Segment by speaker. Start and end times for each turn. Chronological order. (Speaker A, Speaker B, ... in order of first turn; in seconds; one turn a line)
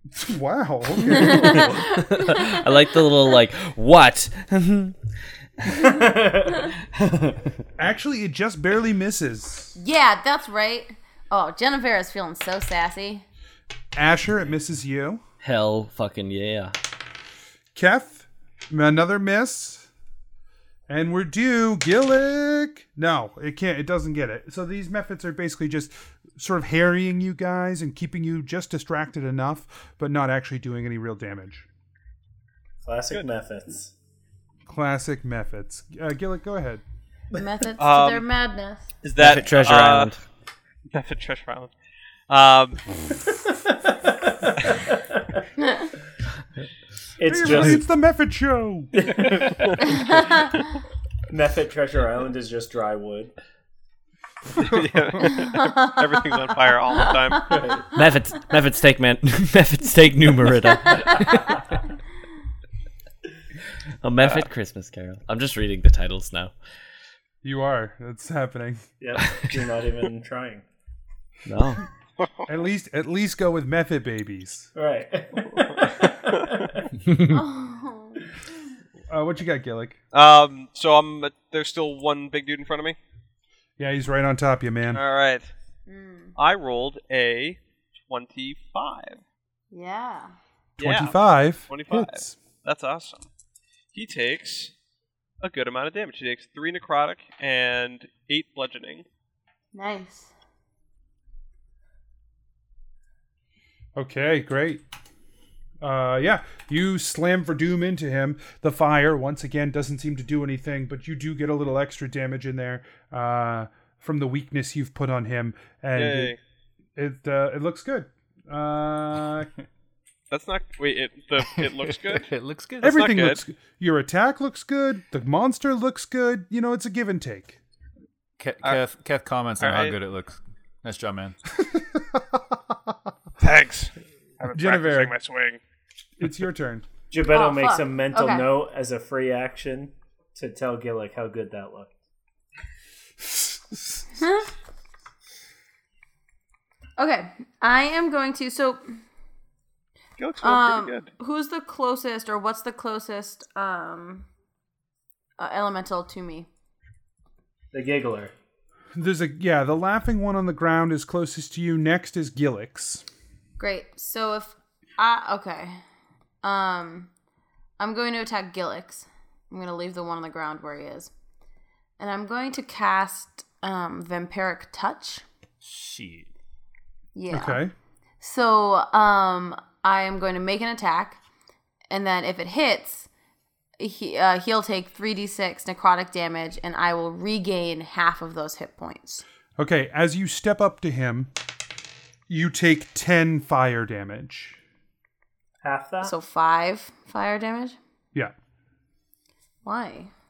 Speaker A: 0.1-1.7
Speaker B: 1.1-2.7
Speaker C: 1.2-5.0
Speaker C: 5.6-7.5
Speaker D: 5.9-6.6
Speaker A: 7.8-9.8
Speaker B: 9.8-13.2
Speaker A: 13.9-15.2
Speaker C: 15.4-16.8
Speaker A: 17.8-19.9
Speaker A: 20.9-31.7
Speaker D: 32.8-33.9
Speaker A: 34.7-36.8
Speaker B: 37.3-38.9
Speaker E: 37.8-38.3
Speaker E: 39.0-40.1
Speaker C: 39.2-40.2
Speaker E: 40.9-41.7
Speaker E: 42.3-42.8
Speaker D: 43.6-45.4
Speaker D: 47.2-47.8
Speaker A: 47.3-48.9
Speaker D: 48.9-50.2
Speaker D: 51.3-53.4
Speaker E: 54.6-57.6
Speaker B: 55.5-56.0
Speaker D: 57.5-57.8
Speaker C: 57.9-61.5
Speaker C: 64.0-66.5
Speaker A: 67.4-68.8
Speaker D: 69.0-70.6
Speaker C: 71.5-71.8
Speaker A: 72.5-74.7
Speaker D: 74.8-76.7
Speaker B: 77.1-78.2
Speaker A: 79.1-80.0
Speaker E: 80.1-83.0
Speaker A: 83.8-85.0
Speaker E: 84.9-85.5
Speaker B: 85.9-86.3
Speaker E: 86.4-89.2
Speaker B: 89.7-90.3
Speaker E: 90.8-91.2
Speaker A: 90.8-92.4
Speaker E: 91.7-93.3
Speaker E: 93.9-94.7
Speaker E: 95.4-99.0
Speaker B: 99.7-100.3
Speaker A: 104.0-104.8
Speaker A: 105.8-116.3
Speaker E: 116.0-116.4
Speaker A: 117.0-119.5
Speaker E: 120.3-122.3
Speaker F: 121.5-122.9
Speaker E: 122.8-123.4
Speaker A: 122.8-127.6
Speaker F: 128.4-131.4
Speaker E: 129.6-130.0
Speaker E: 133.4-135.6
Speaker A: 134.5-135.2
Speaker A: 136.2-136.8
Speaker D: 137.1-141.9
Speaker B: 137.3-138.6
Speaker B: 144.2-144.5
Speaker B: 147.0-148.8
Speaker E: 150.2-151.1
Speaker B: 150.4-154.3
Speaker B: 155.4-156.5
Speaker D: 157.7-158.3
Speaker A: 158.9-163.0
Speaker B: 163.6-165.8
Speaker B: 166.4-167.1
Speaker B: 167.8-171.1
Speaker B: 172.0-175.2
Speaker F: 175.6-176.3
Speaker B: 177.2-177.6
Speaker A: 177.3-177.7
Speaker B: 178.2-181.2
Speaker B: 181.9-183.1
Speaker B: 183.8-189.2
Speaker A: 189.6-191.3
Speaker A: 192.3-194.6
Speaker D: 195.6-196.2
Speaker B: 196.0-197.8
Speaker B: 199.6-200.1